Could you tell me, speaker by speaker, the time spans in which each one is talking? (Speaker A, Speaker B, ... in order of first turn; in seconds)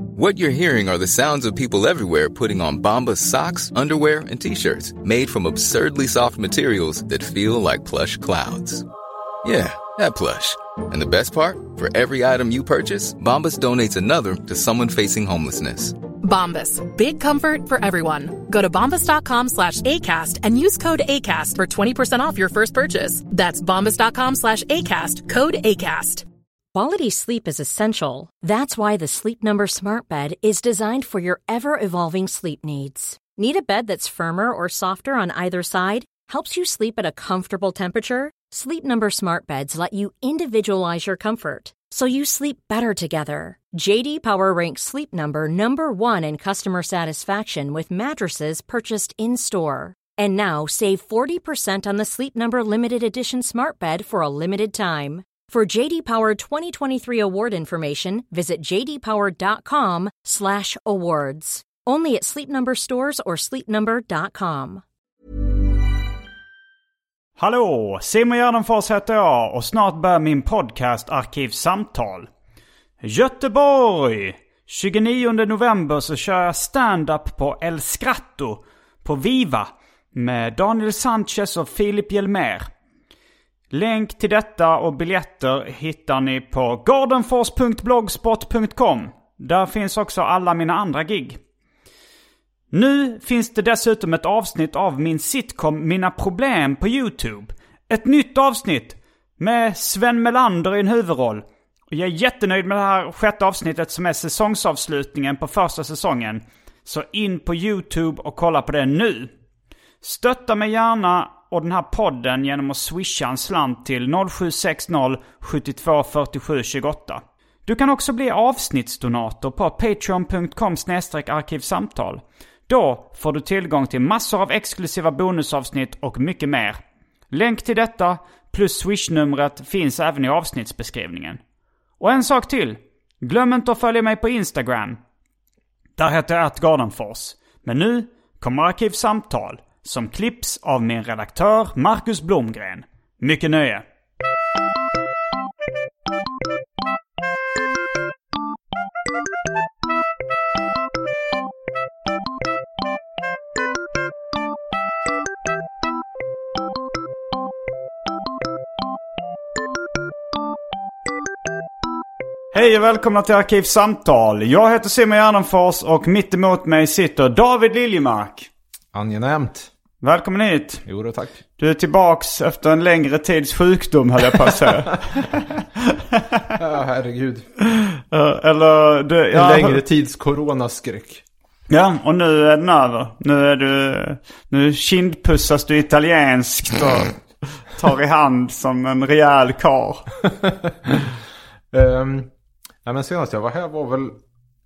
Speaker A: 0.2-8.8, 9.4-16.0
Speaker B: 16.2-26.2
Speaker C: 26.7-64.8
Speaker D: 67.4-72.3, 73.0-82.7, 83.7-91.4, 92.7-109.3, 110.0-126.8, 127.3-131.4, 132.0-135.0, 136.0-143.8, 162.5-168.5, 170.0-170.8, 171.6-175.6, 178.1-179.8, 181.7-187.2, 187.7-190.1
Speaker E: 168.9-169.7, 170.9-171.4, 176.6-177.5, 179.3-181.2, 190.4-191.1, 191.7-192.3, 192.8-194.2